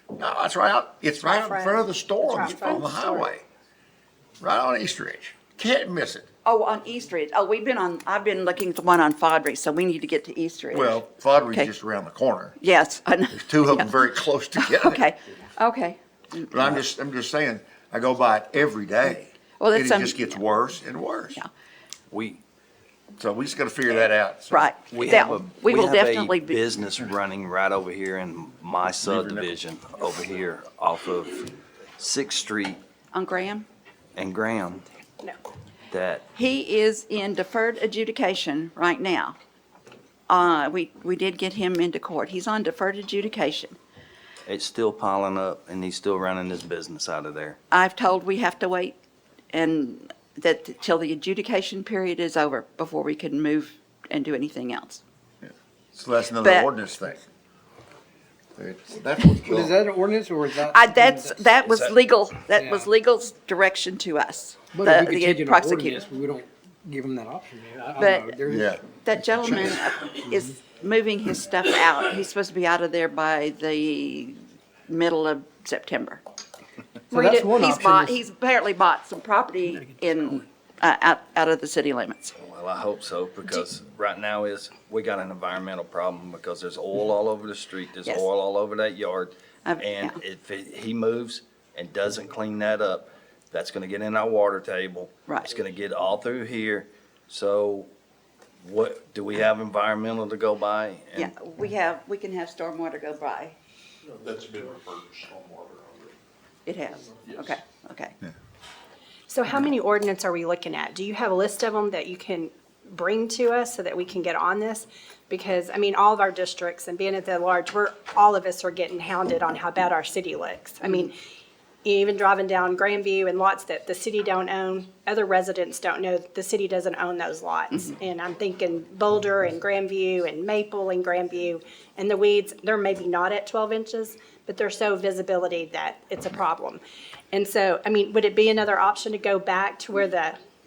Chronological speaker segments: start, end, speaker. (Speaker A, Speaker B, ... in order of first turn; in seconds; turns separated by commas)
Speaker A: 0.1-3.4, Speaker B: 1.3-3.3, Speaker A: 4.4-6.3, Speaker C: 6.4-11.7, Speaker A: 10.7-12.6, Speaker C: 12.6-13.9, Speaker A: 13.3-15.1, Speaker C: 14.6-16.8, Speaker A: 16.5-21.4, Speaker C: 19.6-20.4, Speaker D: 22.1-22.4, Speaker A: 23.2-24.7, Speaker C: 24.5-26.6, Speaker D: 24.9-32.8, Speaker A: 29.0-29.5, Speaker C: 33.1-33.6, Speaker D: 34.1-34.9, Speaker D: 35.9-36.2, Speaker C: 36.3-39.4, Speaker C: 40.3-43.8, Speaker D: 44.5-47.6, Speaker C: 47.7-48.9, Speaker C: 49.5-55.0, Speaker A: 55.4-57.2, Speaker C: 56.4-56.7, Speaker A: 58.5-59.8, Speaker E: 59.4-61.4, Speaker C: 60.6-66.0, Speaker D: 61.6-61.9, Speaker E: 62.5-62.9, Speaker E: 64.7-68.8, Speaker C: 68.0-76.2, Speaker A: 68.5-68.8, Speaker E: 70.3-70.6, Speaker C: 77.1-82.3, Speaker E: 77.1-78.2, Speaker D: 82.4-97.9, Speaker C: 89.6-90.2, Speaker C: 95.3-95.5, Speaker D: 98.6-101.3, Speaker C: 101.1-103.5, Speaker F: 104.2-106.1, Speaker C: 106.7-108.2, Speaker B: 109.3-121.1, Speaker C: 120.8-121.1, Speaker B: 121.8-136.8, Speaker B: 137.3-140.4